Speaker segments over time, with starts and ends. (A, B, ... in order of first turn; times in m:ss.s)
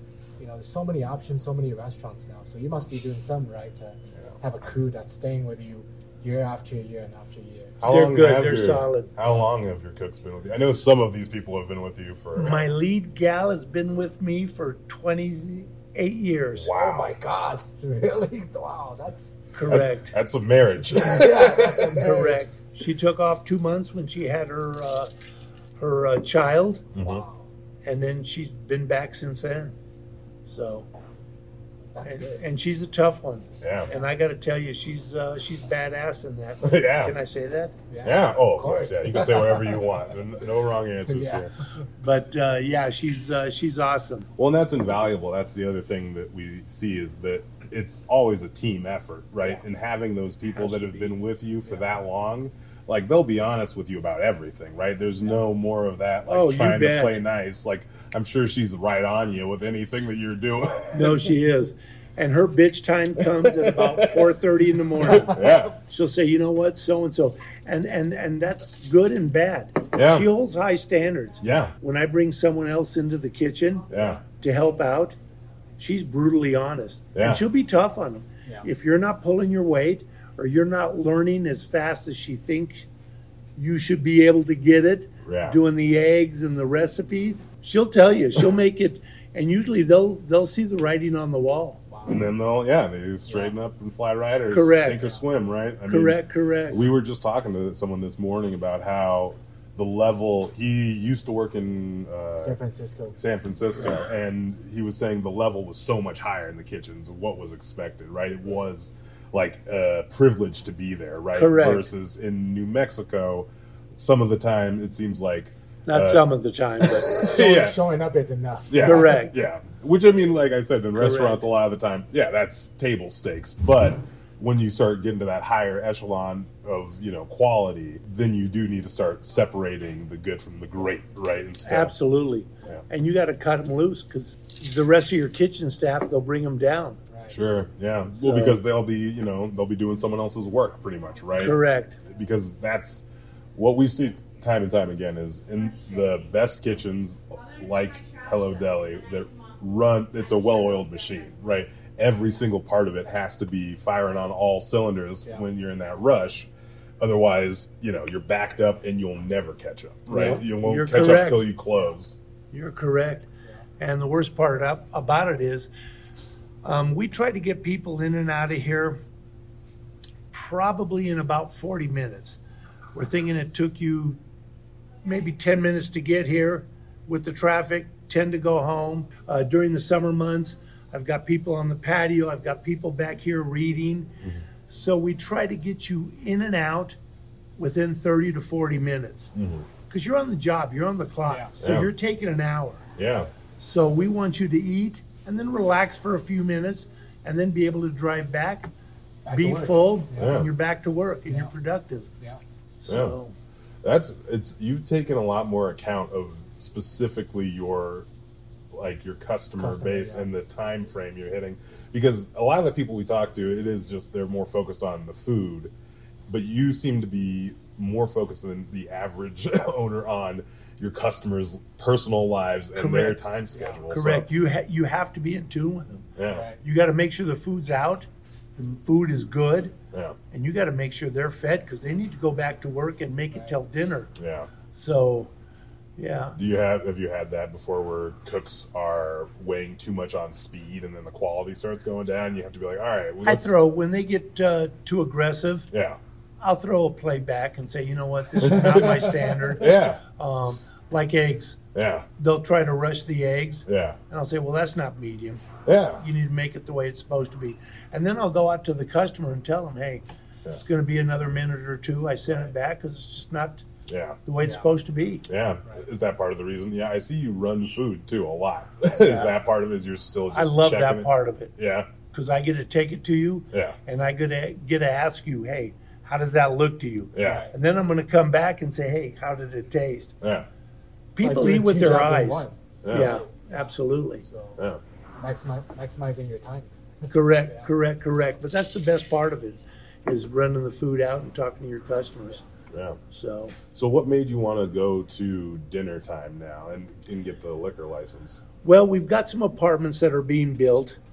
0:00.4-0:07.9 A
0:07.8-0:12.7 B
0:07.8-0:09.1 C
0:12.4-0:16.7 C
0:16.6-0:17.1 B
0:16.7-0:19.4 A
0:19.5-0:20.1 C
0:19.7-0:22.0 B
0:20.9-0:22.4 A
0:21.8-0:25.1 C
0:25.8-0:26.9 C
0:26.9-0:27.2 B
0:27.0-0:27.4 A
0:27.8-0:29.7 C
0:30.4-0:30.9 C
0:31.9-0:32.4 A
0:32.0-0:37.8 C
0:33.6-0:33.9 B
0:36.6-0:37.1 B
0:37.9-0:39.8 A
0:38.0-0:41.5 B
0:41.1-0:41.5 A
0:42.0-0:44.3 C
0:44.4-1:01.3 B
0:56.3-0:57.2 C
1:00.9-1:15.2 C
1:03.4-1:04.3 B
1:05.1-1:05.8 B
1:09.9-1:10.3 B
1:11.4-1:11.7 B
1:13.9-1:14.2 B
1:15.8-1:22.9 C
1:17.1-1:17.4 B
1:23.6-1:31.8 C
1:25.2-1:25.6 B
1:31.9-1:32.2 A
1:32.0-1:36.2 B
1:33.3-1:33.5 A
1:34.5-1:35.0 C
1:35.9-1:36.8 C
1:36.7-1:42.6 B
1:42.4-1:43.2 A
1:43.2-1:56.2 B
1:51.3-1:51.9 C
1:55.9-1:57.3 C
1:56.8-1:57.8 B
1:57.1-1:59.2 A
1:58.7-2:11.9 B
1:58.8-1:59.3 C
2:00.9-2:01.4 C
2:11.6-2:17.0 C
2:17.1-2:17.4 A
2:17.3-2:23.0 B
2:18.2-2:18.6 C
2:21.4-2:22.0 C
2:23.6-2:36.5 B
2:37.0-2:42.2 B
2:40.1-2:41.5 C
2:42.5-2:43.3 C
2:43.8-2:45.7 C
2:46.6-2:49.0 C
2:50.3-2:52.4 C
2:52.9-2:54.2 C
2:55.0-3:04.2 C
3:04.7-3:07.0 C
3:07.6-3:09.3 C
3:09.3-3:09.7 B
3:09.9-3:12.8 C
3:11.3-3:11.5 A
3:11.6-3:11.9 B
3:13.0-3:13.3 B
3:13.6-3:18.7 C
3:19.2-3:20.4 A
3:19.3-3:22.1 C
3:20.1-3:20.5 B
3:22.8-3:23.3 C
3:22.9-3:23.2 B
3:23.8-3:28.1 B
3:28.7-3:35.7 B
3:29.6-3:30.3 A
3:36.3-3:44.3 B
3:42.8-3:43.2 C
3:43.5-3:43.8 A
3:43.9-3:46.1 C
3:46.2-3:46.4 B
3:46.3-3:46.6 A
3:46.6-3:49.7 C
3:49.9-3:50.2 B
3:50.3-3:54.1 C
3:54.2-3:54.5 B
3:54.7-3:55.3 C
3:56.0-3:56.4 C
3:56.3-4:03.6 B
4:03.2-4:05.7 C
4:05.7-4:06.0 B
4:06.4-4:11.6 C
4:08.4-4:10.0 B
4:11.7-4:12.0 B
4:12.2-4:20.0 C
4:13.7-4:14.0 B
4:15.6-4:16.0 B
4:20.6-4:23.6 C
4:23.9-4:24.2 B
4:24.2-4:25.2 C
4:25.3-4:31.9 B
4:29.0-4:29.3 C
4:30.3-4:31.5 C
4:32.1-4:40.1 C
4:33.5-4:33.8 B
4:37.1-4:37.5 B
4:37.2-4:37.5 A
4:40.2-4:40.5 B
4:41.1-4:44.2 C
4:41.2-4:43.2 A
4:42.8-4:43.2 B
4:44.2-4:44.6 A
4:45.2-4:47.7 A
4:47.1-4:52.4 C
4:52.7-4:53.0 B
4:53.1-4:53.6 C
4:53.7-4:58.4 B
4:58.6-5:01.0 C